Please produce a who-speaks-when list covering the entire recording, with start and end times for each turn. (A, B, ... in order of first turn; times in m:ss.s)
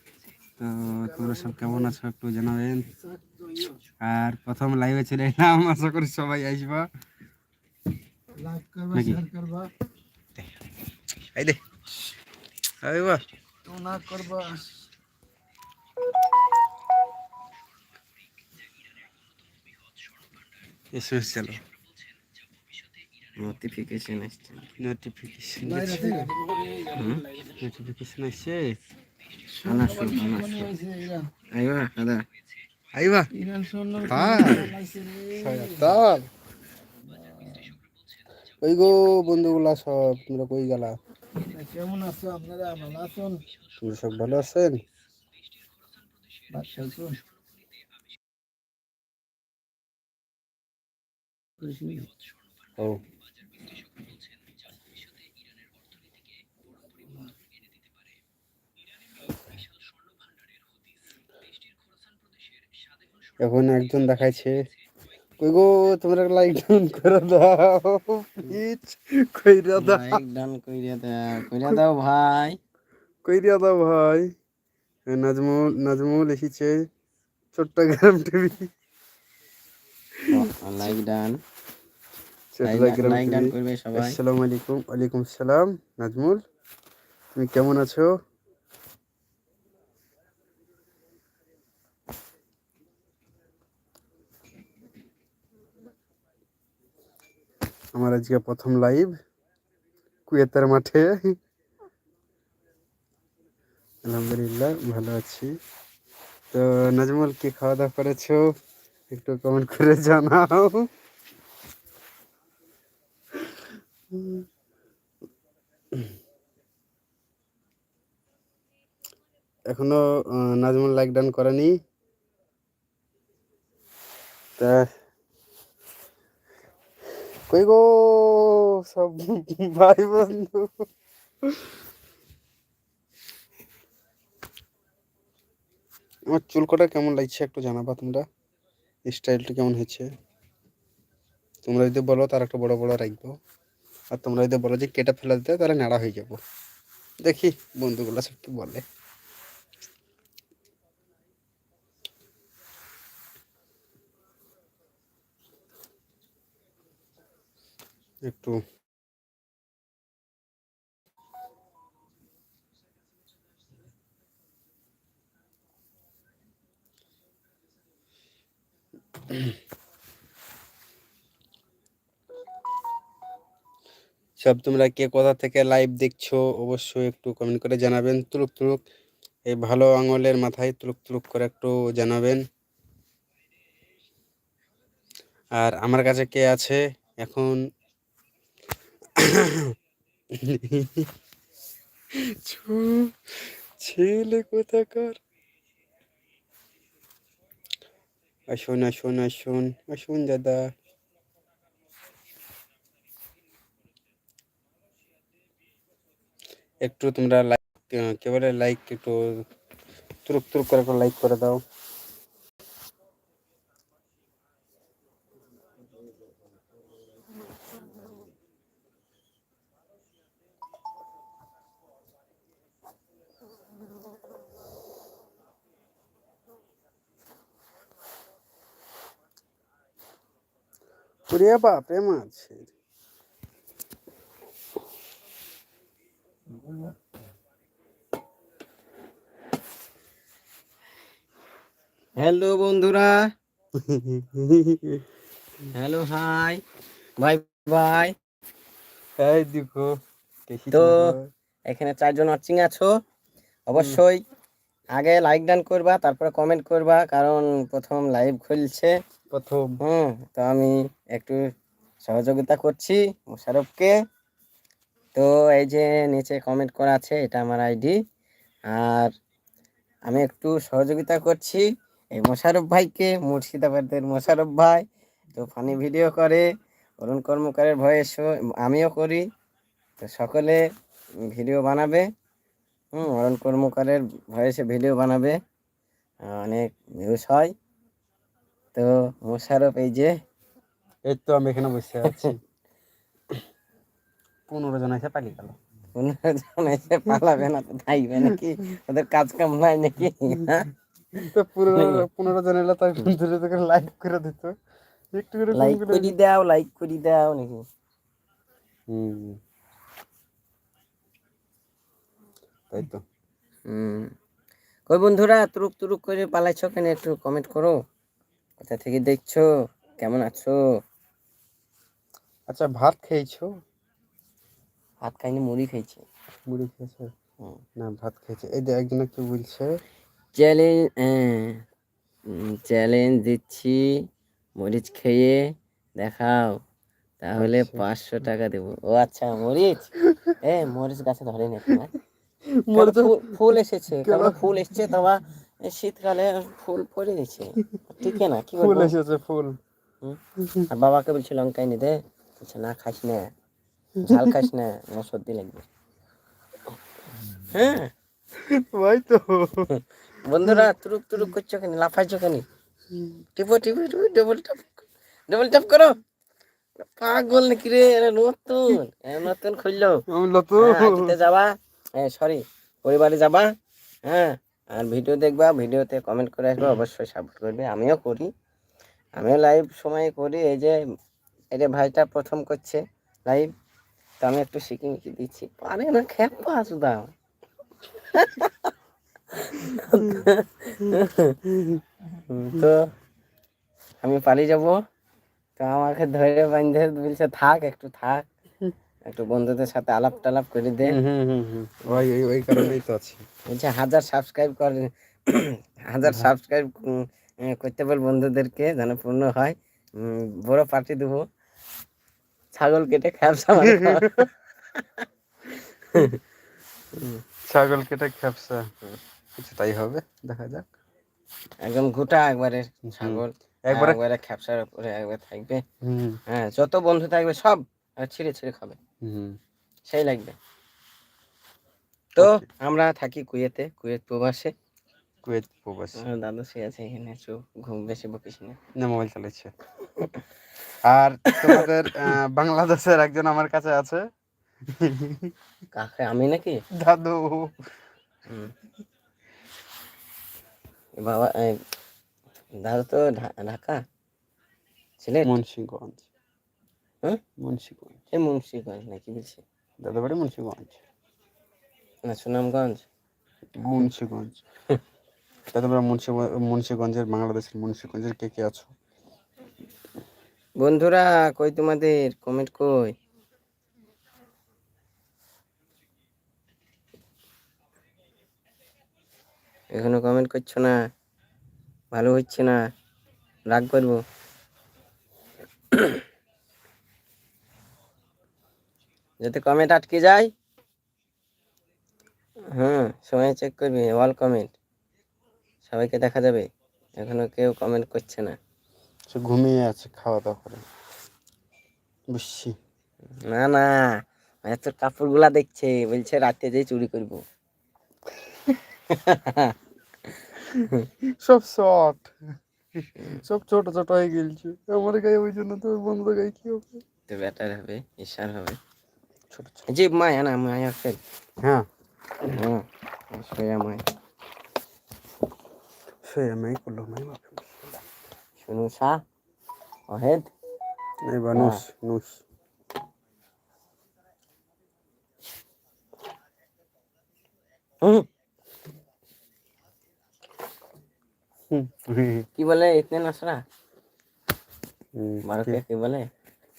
0:00.6-0:02.9 A
0:03.3-0:03.7 B
0:04.0-0:06.9 A
0:08.3-0:09.7 B
0:08.9-0:09.2 A
0:11.3-0:11.6 A
0:12.8-0:13.2 A
0:13.6-0:14.7 B
0:20.9-0:21.6 A
0:23.4-0:24.6 C
0:24.8-0:26.3 A
0:25.6-0:27.5 B
0:26.9-0:27.2 C
0:27.6-0:28.8 A
0:29.5-0:31.3 B
0:29.6-0:30.7 C
0:31.5-0:32.2 C
0:32.9-0:33.3 A
0:33.3-0:36.0 B
0:34.0-0:34.8 A
0:35.3-0:36.3 A
0:37.1-0:37.7 B
0:38.6-0:41.0 A
0:41.4-0:43.4 B
0:43.8-0:44.8 A
0:46.5-0:47.2 B
0:51.6-0:52.1 B
1:03.4-1:04.6 A
1:05.4-1:10.2 A
1:09.8-1:12.6 C
1:13.2-1:14.3 A
1:15.1-1:16.9 A
1:17.5-1:18.7 A
1:20.2-1:20.4 A
1:20.3-1:21.4 C
1:22.5-1:26.4 A
1:22.6-1:24.2 C
1:27.3-1:28.1 A
1:37.9-1:39.2 A
1:40.3-1:41.3 A
1:44.0-1:45.5 A
1:46.5-1:48.4 A
1:49.1-1:50.9 A
1:53.4-1:54.5 A
1:59.7-2:01.8 A
2:04.6-2:04.9 A
2:07.5-2:10.9 A
2:11.4-2:11.7 A
2:16.3-2:18.2 A
2:19.1-2:20.1 A
2:21.6-2:23.4 A
2:24.1-2:26.4 A
2:27.2-2:28.8 A
2:38.2-2:38.6 A
2:54.4-2:58.8 A
2:59.4-3:02.4 A
3:05.6-3:07.6 A
3:09.2-3:09.7 A
3:10.3-3:11.1 A
3:12.1-3:15.2 A
3:18.5-3:20.6 A
3:26.8-3:29.4 A
3:30.2-3:31.6 A
3:51.3-3:52.7 A
4:02.2-4:03.3 C
4:03.7-4:05.0 A
4:05.7-4:06.6 C
4:07.2-4:08.1 C
4:09.2-4:09.9 A
4:10.5-4:11.3 A
4:10.7-4:11.1 C
4:11.7-4:12.9 C
4:13.7-4:14.2 C
4:14.9-4:19.0 C
4:19.3-4:19.8 A
4:19.8-4:21.4 C
4:22.0-4:24.0 C
4:25.1-4:28.0 C
4:28.7-4:29.1 C
4:30.0-4:36.5 C
4:37.0-4:39.3 C
4:40.0-4:40.6 C
4:41.2-4:42.1 C
4:42.9-4:45.4 C
4:46.2-4:47.5 C
4:48.7-4:50.2 C
4:51.0-4:52.4 A
4:52.0-4:52.3 C
4:54.5-4:55.6 A
4:55.9-5:01.2 C
5:01.2-5:04.6 A
5:05.1-5:06.1 A
5:05.5-5:07.6 C
5:08.9-5:09.4 A
5:12.7-5:13.0 A
5:13.6-5:14.1 C
5:14.9-5:17.8 C
5:18.6-5:19.5 C
5:20.0-5:20.6 C
5:22.5-5:23.5 A
5:25.0-5:26.0 C
5:26.5-5:27.1 A
5:27.8-5:29.7 A
5:30.3-5:31.6 C
5:32.3-5:34.0 C
5:34.6-5:36.6 C
5:37.2-5:41.9 C
5:37.4-5:37.8 A
5:40.0-5:40.3 A
5:42.6-5:44.5 A
5:42.7-5:48.9 C
5:47.6-5:49.6 A
5:50.0-5:53.3 C
5:50.4-5:50.7 A
5:54.0-5:54.5 A
5:54.0-5:55.7 C
5:57.5-5:57.9 C
5:58.4-5:59.7 A
5:59.7-6:02.4 C
6:00.4-6:00.7 A
6:02.9-6:03.2 A
6:03.4-6:06.0 C
6:06.8-6:10.0 C
6:10.1-6:11.2 A
6:10.6-6:13.5 C
6:14.0-6:18.3 C
6:19.2-6:20.8 C
6:21.5-6:23.5 C
6:24.2-6:27.1 C
6:28.0-6:28.7 C
6:29.3-6:31.4 C
6:29.9-6:30.3 A
6:30.9-6:31.8 A
6:32.2-6:32.9 C
6:32.4-6:32.7 A
6:34.0-6:34.8 C
6:35.6-6:38.2 C
6:39.0-6:41.0 C
6:40.8-6:43.2 A
6:43.4-6:51.2 C
6:52.6-6:55.0 C
6:53.6-6:54.3 A
6:55.8-6:56.2 C
6:56.9-6:57.2 C
6:57.4-6:58.7 A
6:59.4-7:00.7 A
7:01.6-7:05.6 C
7:02.9-7:04.0 A
7:05.8-7:06.2 A
7:06.3-7:08.8 C
7:09.0-7:09.4 A
7:09.9-7:10.4 C
7:12.2-7:14.5 C
7:12.2-7:12.4 A
7:15.2-7:16.0 A
7:16.0-7:18.6 C
7:18.8-7:19.5 A
7:20.8-7:24.0 A
7:21.3-7:21.7 C
7:24.7-7:25.3 A
7:25.7-7:26.6 C
7:26.7-7:27.7 A
7:28.3-7:28.5 C
7:31.0-7:31.6 C
7:32.6-7:33.8 C
7:35.0-7:35.3 C
7:35.2-7:36.1 A
7:37.4-7:38.0 A
7:38.1-7:39.4 C
7:39.8-7:40.8 A
7:42.0-7:42.8 C
7:43.6-7:44.4 A
7:45.5-7:48.7 A
7:50.6-7:53.0 C
7:59.7-8:00.8 C
8:01.9-8:02.6 C
8:03.5-8:04.0 C
8:05.7-8:06.0 C
8:09.2-8:10.3 C
8:12.5-8:14.5 C
8:15.6-8:18.4 C
8:19.1-8:20.6 A
8:22.1-8:22.6 A
8:23.2-8:27.2 C
8:28.9-8:29.5 C
8:30.0-8:30.9 C
8:31.0-8:36.8 A
8:33.0-8:33.2 C
8:37.1-8:38.6 C
8:39.3-8:39.6 A
8:39.7-8:41.0 C
8:41.4-8:41.7 A
8:42.2-8:43.8 C
8:46.0-8:47.8 A
8:48.4-8:49.0 C
8:49.9-8:50.3 C
8:51.0-8:52.2 A
8:51.3-8:51.6 C
8:57.8-8:58.1 C
9:01.5-9:02.3 A
9:02.4-9:03.4 C
9:05.0-9:05.6 A
9:05.2-9:06.1 C